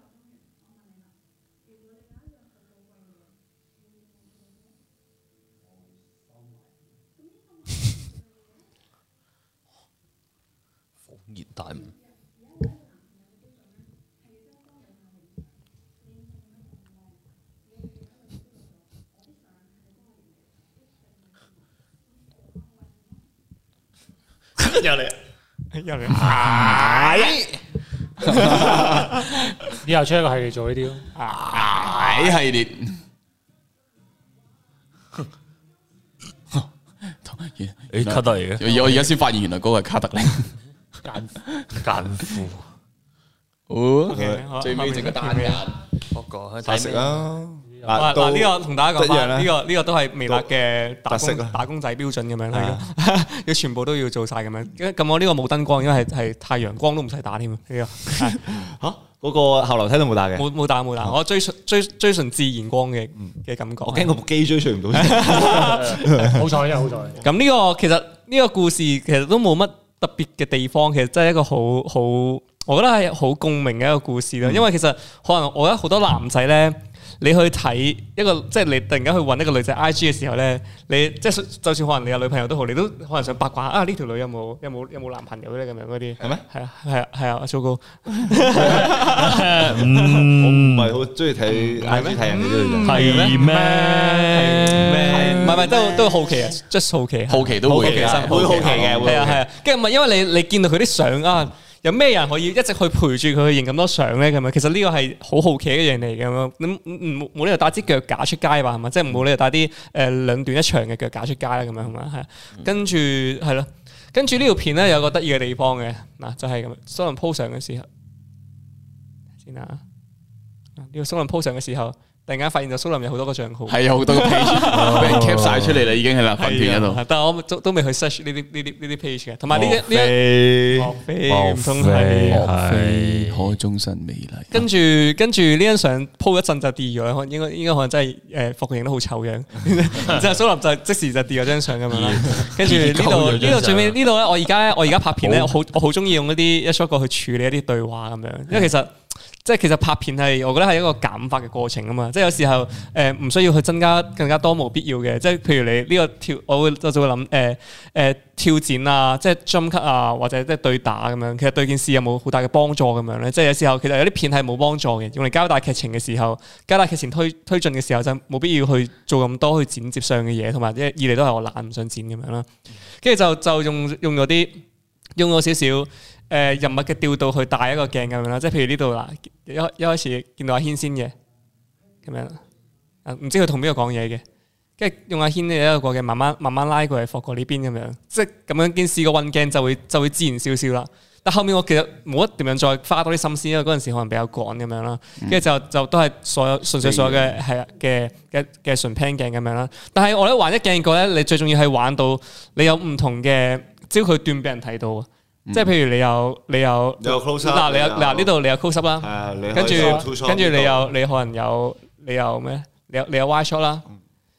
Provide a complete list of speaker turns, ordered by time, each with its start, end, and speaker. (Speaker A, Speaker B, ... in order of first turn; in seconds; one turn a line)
Speaker A: 11.1-11.9
Speaker B: 24.6-25.1
Speaker C: 25.7-26.8
Speaker D: 26.2-27.3
Speaker E: 26.3-27.3
Speaker B: 26.4-27.4
Speaker E: 28.2-29.1
Speaker C: 28.4-29.0
Speaker D: 29.8-31.1
Speaker C: 31.2-31.9
Speaker E: 31.3-33.0
Speaker E: 37.2-40.5
Speaker A: 37.9-38.6
Speaker D: 41.0-41.4
Speaker A: 41.8-42.6
Speaker E: 43.7-45.8
Speaker C: 44.1-45.6
Speaker B: 44.1-44.4
Speaker A: 46.1-47.2
Speaker B: 46.6-49.5
Speaker D: 47.7-48.0
Speaker C: 48.0-58.5
Speaker B: 51.1-51.6
Speaker B: 52.5-52.9
Speaker B: 58.2-60.5
Speaker C: 60.4-64.1
Speaker B: 63.9-66.5
Speaker C: 64.9-66.2
Speaker D: 66.0-67.2
Speaker C: 67.2-90.2
Speaker B: 88.3-89.0
Speaker A: 89.0-91.0
Speaker B: 90.2-93.2
Speaker C: 91.5-92.3
Speaker D: 92.3-95.4
Speaker C: 92.8-93.5
Speaker A: 92.8-95.3
Speaker C: 94.3-117.9
Speaker E: 95.1-96.2
Speaker E: 97.3-99.2
Speaker B: 97.6-99.4
Speaker C: 119.4-119.8
Speaker C: 120.8-125.3
Speaker E: 123.7-127.0
Speaker A: 124.7-125.8
Speaker C: 126.4-132.5
Speaker B: 129.5-130.9
Speaker A: 131.3-133.6
Speaker E: 132.3-134.7
Speaker C: 134.5-172.5
Speaker A: 141.9-144.0
Speaker C: 173.0-174.6
Speaker C: 175.2-181.1
Speaker C: 182.0-182.4
Speaker C: 183.1-184.2
Speaker C: 184.8-213.8
Speaker E: 196.8-197.4
Speaker B: 207.0-208.3
Speaker B: 209.0-210.9
Speaker D: 209.6-210.0